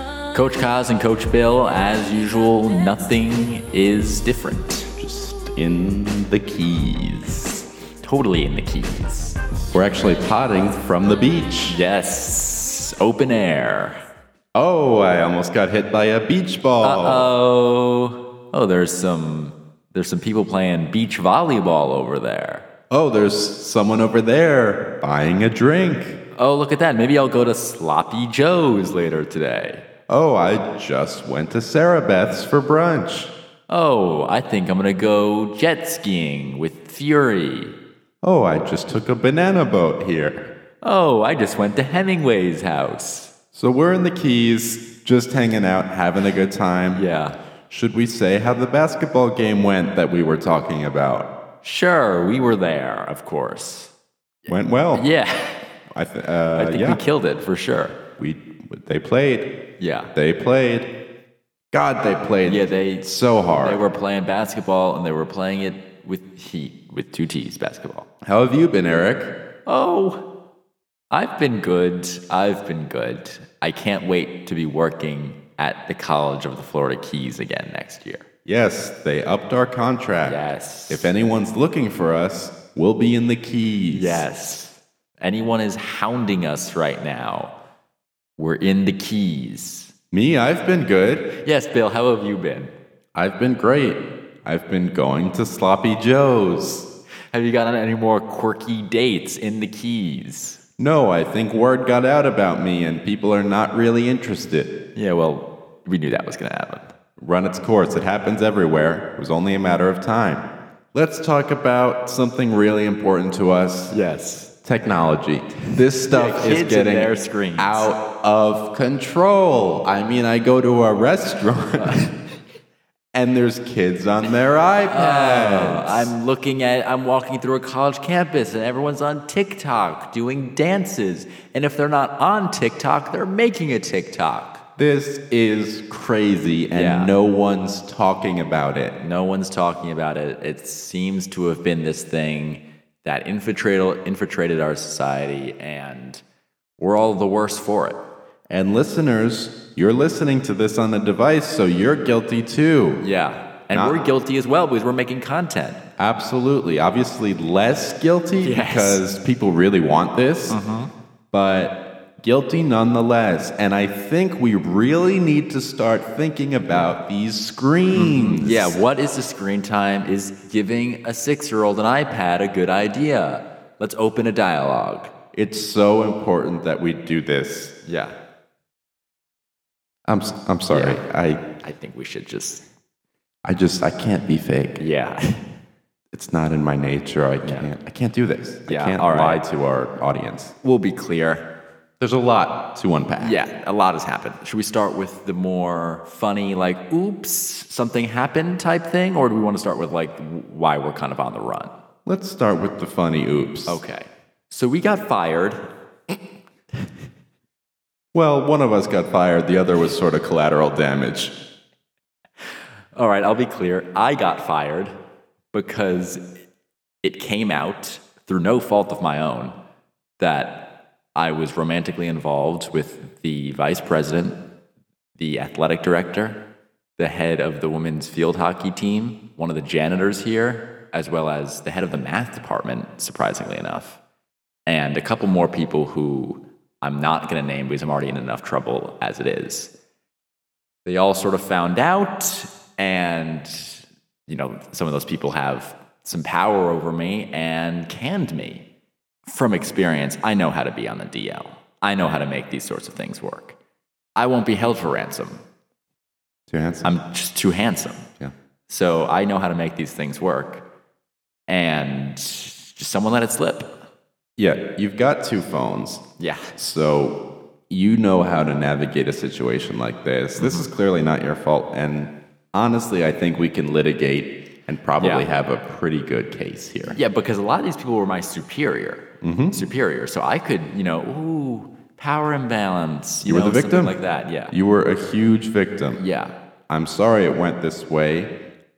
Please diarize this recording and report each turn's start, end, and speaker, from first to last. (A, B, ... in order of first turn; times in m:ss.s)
0:00.3-0:04.9 A
0:05.0-0:07.4 B
0:08.0-0:09.4 A
0:09.7-0:11.8 B
0:11.7-0:14.0 A
0:14.5-0:17.3 B
0:16.8-0:22.6 A
0:22.9-0:26.2 B
0:26.4-0:29.8 A
0:30.1-0:33.3 B
0:33.7-0:37.7 A
0:38.2-0:40.5 B
0:40.8-0:43.3 A
0:43.5-0:47.0 B
0:46.9-0:47.4 A
0:47.7-0:51.3 B
0:51.6-0:53.9 A
0:54.5-0:55.0 B
0:54.9-0:55.6 A
0:55.9-0:57.0 B
0:56.5-0:58.0 A
0:58.2-0:59.5 B
0:59.8-1:00.1 A
1:00.1-1:00.9 B
1:01.7-1:03.8 B
1:02.4-1:03.1 A
1:03.6-1:08.1 A
1:08.2-1:09.3 B
1:09.6-1:10.2 A
1:11.1-1:18.2 A
1:18.4-1:24.2 B
1:20.2-1:21.1 A
1:23.9-1:27.5 A
1:28.4-1:29.9 A
1:30.1-1:31.3 B
1:31.4-1:32.7 A
1:33.1-1:36.9 B
1:37.3-1:40.6 A
1:40.8-1:44.7 B
1:44.9-1:46.9 A
1:47.2-1:53.9 B
1:53.9-1:54.5 A
1:54.6-2:02.1 B
1:56.1-1:57.9 A
2:01.8-2:02.1 A
2:03.1-2:06.1 B
2:04.9-2:14.6 A
2:14.8-2:19.0 B
2:16.7-2:17.1 A
2:19.0-2:26.2 A
2:26.8-2:28.0 A
2:28.5-2:33.0 B
2:33.0-2:35.8 A
2:33.7-2:34.1 B
2:36.0-2:40.6 B
2:38.4-2:39.0 A
2:40.5-2:40.9 A
2:41.3-2:48.7 B
2:47.9-2:55.1 A
2:55.3-2:57.7 B
2:57.8-2:58.1 A
3:00.1-3:01.4 B
3:00.7-3:01.0 A
3:01.6-3:02.6 A
3:03.4-3:04.8 B
3:04.8-3:05.4 A
3:06.1-3:10.5 B
3:08.7-3:09.4 A
3:10.6-3:11.5 A
3:12.0-3:13.4 B
3:13.2-3:21.7 A
3:22.0-3:23.8 B
3:23.7-3:25.6 A
3:28.1-3:31.3 B
3:32.9-3:34.9 A
3:35.5-3:36.3 A
3:37.0-3:39.6 A
3:40.2-3:44.4 A
3:45.2-3:46.4 A
3:47.0-3:54.0 A
3:54.7-3:59.7 A
4:00.8-4:08.6 A
4:09.2-4:13.6 A
4:14.2-4:15.4 A
4:16.5-4:16.9 B
4:16.8-4:18.1 A
4:18.7-4:20.6 A
4:21.5-4:23.7 A
4:24.4-4:26.0 B
4:26.2-4:26.5 A
4:26.5-4:37.0 B
4:30.4-4:30.7 A
4:35.0-4:35.3 A
4:36.9-4:44.5 A
4:39.2-4:39.6 B
4:43.2-4:44.0 B
4:44.5-4:46.0 B
4:45.9-4:46.3 A
4:46.7-4:48.3 B